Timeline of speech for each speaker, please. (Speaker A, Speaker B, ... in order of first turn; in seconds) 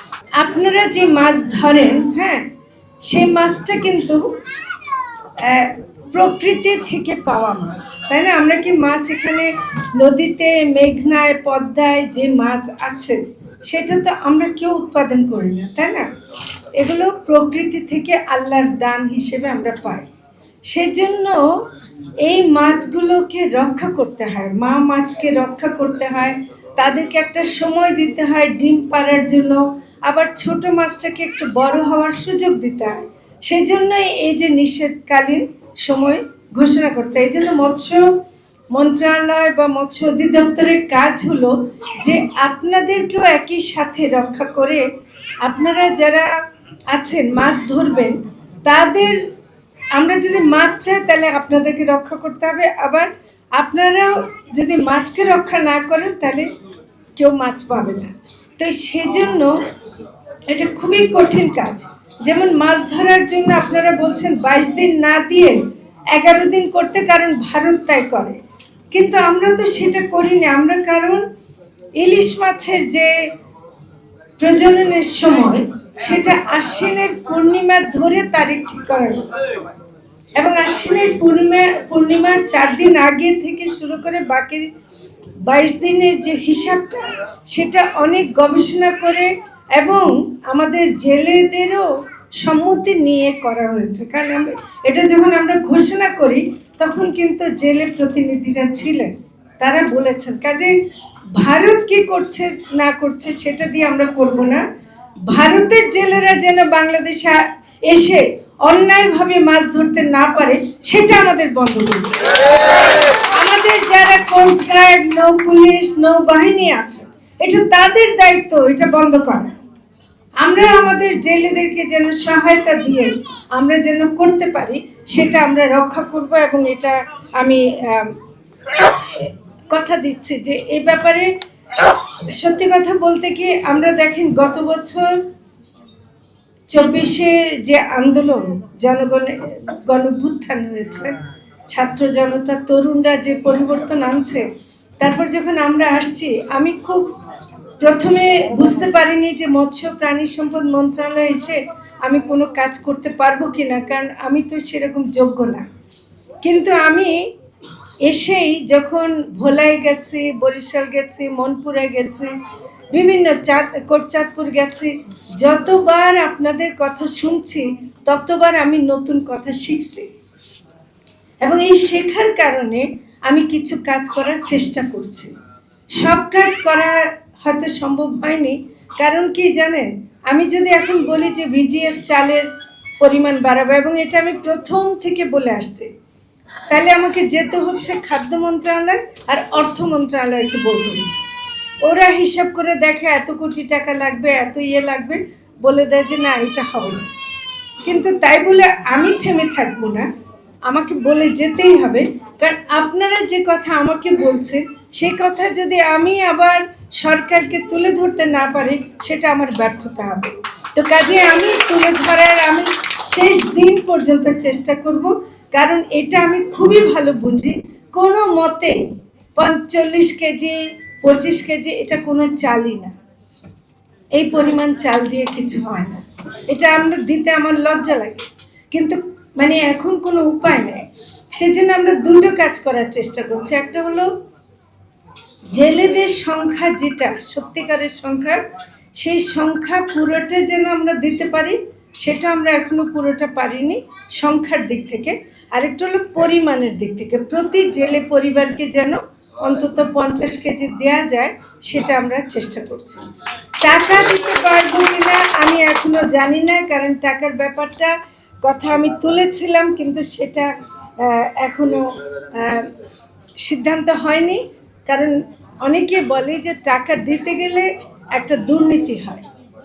Speaker A: 0.4-2.5, 3.0-4.3, 5.4-16.1, 16.8-20.1, 20.7-21.6, 22.2-38.1, 38.7-44.8, 45.4-46.3, 46.9-49.2, 49.9-56.5, 57.1-59.6, 60.5-65.6, 66.1-71.2, 72.0-73.2, 74.4-79.6, 80.4-84.7, 85.4-91.9, 92.4-100.7, 101.3-104.6, 105.3-112.3, 113.3-119.5, 120.4-128.2, 128.7-135.2, 136.7-141.1, 141.7-144.4, 145.0-147.1, 147.8-155.6, 156.4-157.2, 158.0-162.3, 162.9-170.1, 171.4-175.3, 175.9-182.5, 183.0-185.9, 186.7-191.2, 191.8-197.1, 197.8-200.1, 200.7-218.8, 219.4-222.9, 224.1-234.1, 235.5-238.4, 239.0-253.1, 253.6-262.7, 263.4-269.2